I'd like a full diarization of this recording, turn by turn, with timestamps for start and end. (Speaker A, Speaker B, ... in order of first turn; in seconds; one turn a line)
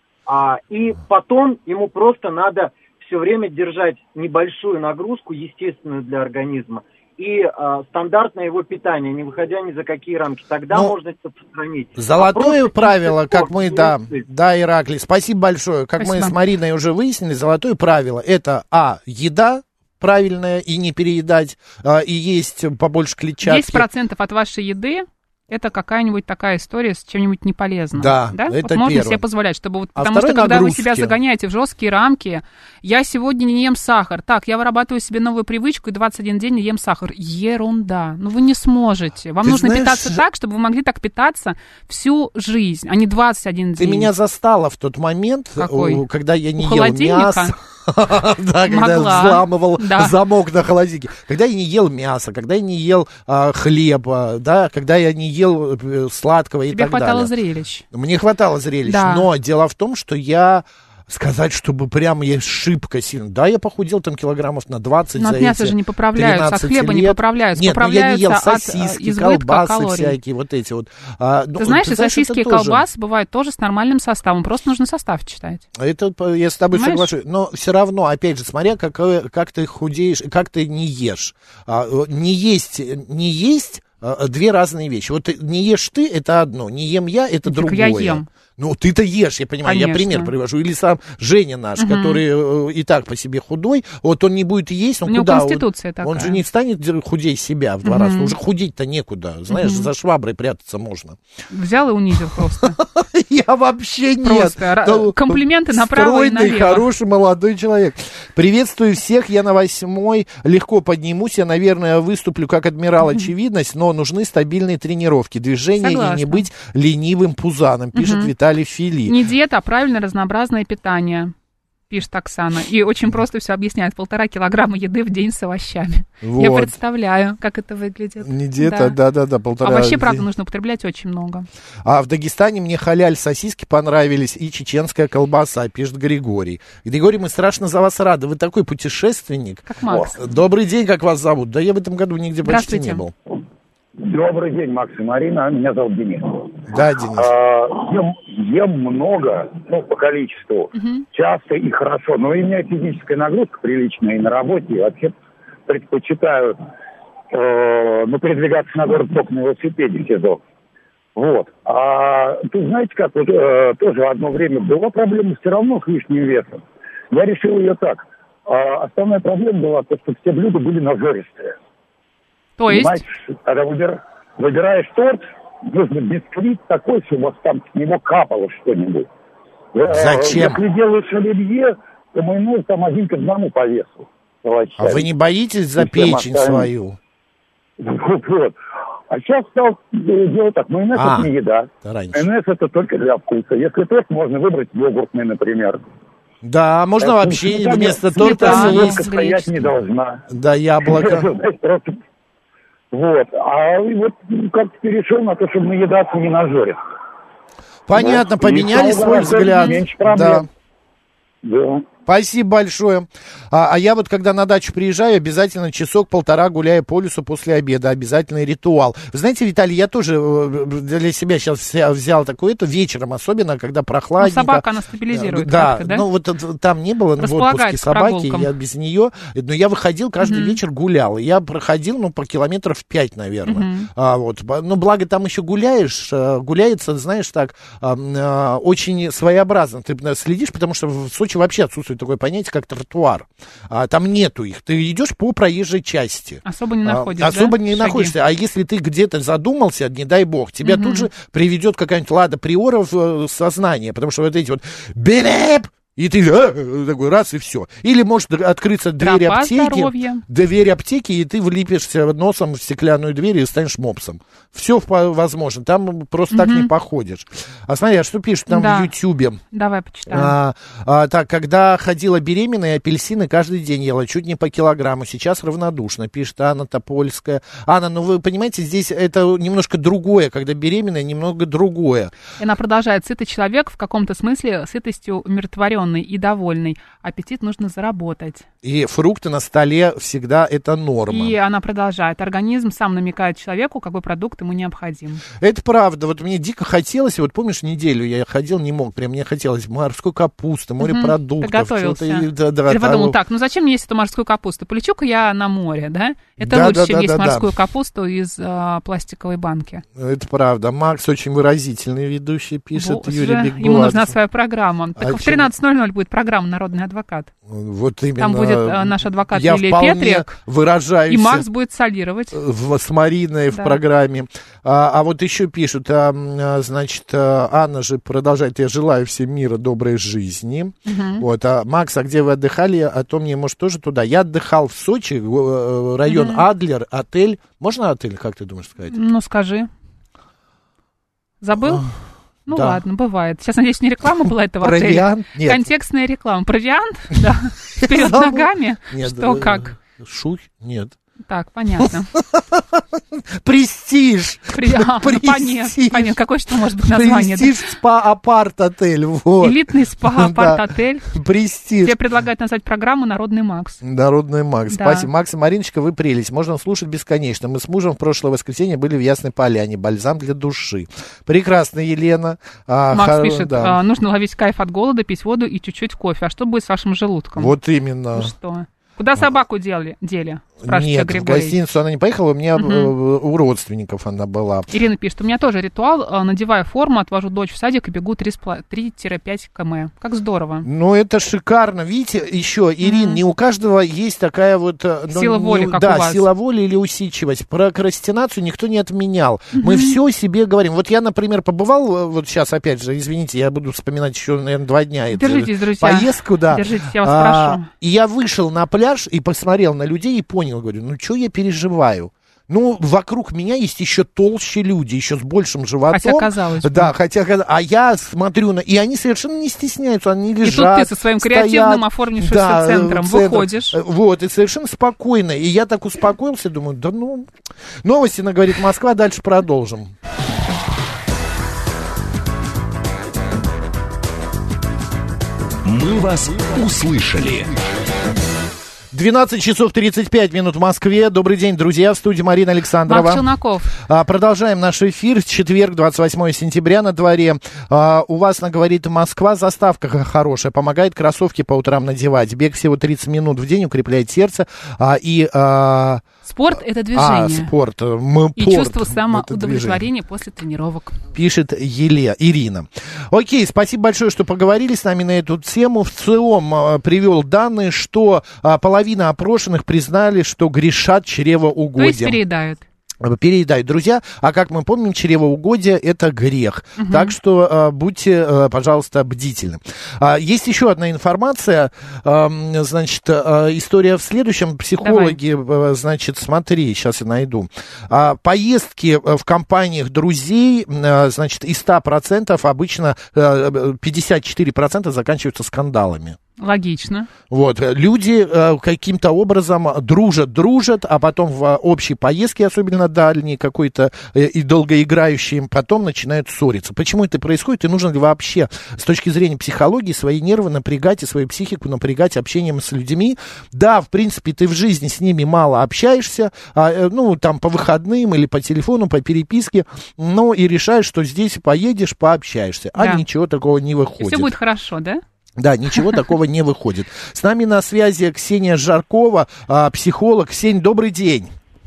Speaker A: 0.3-14.2
Speaker B: 12.0-23.9
Speaker C: 16.0-16.4
Speaker C: 23.4-44.1
Speaker B: 27.9-29.2
Speaker B: 30.0-31.1
Speaker B: 39.4-40.2
Speaker B: 43.8-57.3
Speaker C: 45.6-46.0
Speaker C: 46.6-47.5
Speaker C: 48.7-50.2
Speaker C: 56.7-57.8
Speaker B: 57.9-72.8
Speaker C: 58.9-59.3
Speaker C: 65.2-70.2
Speaker C: 71.6-75.6
Speaker B: 75.8-101.2
Speaker C: 76.7-77.1
Speaker C: 87.5-88.3
Speaker C: 89.6-90.3
Speaker C: 91.8-92.2
Speaker C: 95.1-96.4
Speaker C: 97.8-98.3
Speaker C: 99.5-99.9
Speaker C: 101.5-102.8
Speaker B: 102.3-119.2
Speaker C: 104.2-106.9
Speaker C: 115.8-116.5
Speaker C: 117.9-118.3
Speaker C: 119.1-121.3
Speaker C: 121.9-129.0
Speaker B: 126.2-126.8
Speaker B: 128.2-130.2
Speaker C: 129.6-131.5
Speaker B: 131.8-143.1
Speaker C: 139.7-140.2
Speaker C: 142.4-143.0
Speaker D: 144.0-146.6
Speaker B: 146.7-147.3
Speaker D: 147.2-155.1
Speaker C: 150.8-151.1
Speaker D: 155.7-156.6
Speaker D: 157.3-160.4
Speaker D: 161.2-171.6
Speaker C: 172.6-173.0
Speaker D: 172.7-179.1
Speaker D: 179.7-185.1
Speaker B: 179.9-180.6
Speaker B: 184.8-187.0
Speaker D: 185.8-186.7
Speaker D: 187.8-188.6
Speaker D: 189.1-195.8
Speaker B: 190.9-191.3
Speaker B: 191.8-192.2
Speaker B: 196.4-199.0
Speaker D: 197.0-200.2
Speaker C: 198.2-199.5
Speaker B: 200.3-201.3
Speaker D: 200.8-202.0
Speaker D: 202.9-206.8
Speaker B: 207.9-210.5
Speaker D: 207.9-210.5
Speaker C: 209.5-209.8
Speaker D: 211.4-211.9
Speaker B: 212.1-269.4
Speaker C: 224.2-226.1
Speaker C: 227.2-228.5
Speaker C: 230.2-230.6
Speaker C: 233.5-233.9
Speaker C: 246.4-248.1
Speaker C: 250.6-251.1
Speaker C: 259.0-260.2
Speaker C: 266.3-266.7
Speaker C: 268.5-268.9
Speaker C: 269.5-270.3
Speaker B: 270.1-282.1
Speaker C: 282.4-288.5
Speaker B: 288.6-291.4
Speaker C: 291.1-295.2
Speaker B: 295.4-303.2
Speaker C: 300.8-309.8
Speaker B: 306.4-307.5
Speaker B: 310.0-314.2
Speaker C: 312.8-317.3
Speaker B: 315.0-315.5
Speaker B: 317.5-321.5
Speaker C: 318.2-320.3
Speaker C: 321.1-322.4
Speaker B: 322.3-339.0
Speaker C: 323.5-323.8
Speaker C: 330.9-331.2
Speaker C: 336.1-336.4
Speaker C: 338.9-339.7
Speaker C: 341.4-341.9
Speaker B: 341.6-341.9
Speaker C: 342.5-349.8
Speaker B: 342.5-342.8
Speaker B: 344.6-345.7
Speaker B: 347.8-351.0
Speaker C: 351.3-352.1
Speaker B: 351.8-356.2
Speaker C: 354.5-357.5
Speaker B: 356.9-361.9
Speaker C: 359.4-361.1
Speaker C: 361.8-363.8
Speaker B: 363.8-373.8
Speaker C: 364.7-365.1
Speaker C: 372.9-377.5
Speaker B: 377.4-378.3
Speaker C: 378.1-381.6
Speaker B: 380.6-384.7
Speaker C: 382.6-382.9
Speaker C: 384.7-390.7
Speaker B: 390.6-429.9
Speaker C: 392.8-393.2
Speaker C: 395.1-396.3
Speaker C: 399.5-400.0
Speaker C: 405.1-407.7
Speaker C: 415.9-416.9
Speaker C: 420.4-423.8
Speaker E: 435.6-437.6
Speaker B: 438.9-459.8
Speaker C: 442.9-443.8
Speaker C: 456.2-457.5
Speaker C: 458.4-461.0
Speaker B: 461.1-472.2
Speaker C: 471.8-472.6
Speaker B: 473.0-496.2
Speaker C: 476.8-477.1
Speaker C: 484.8-485.2
Speaker C: 496.4-497.1
Speaker B: 497.3-524.3
Speaker C: 522.8-523.0
Speaker C: 524.0-525.0
Speaker B: 525.4-531.3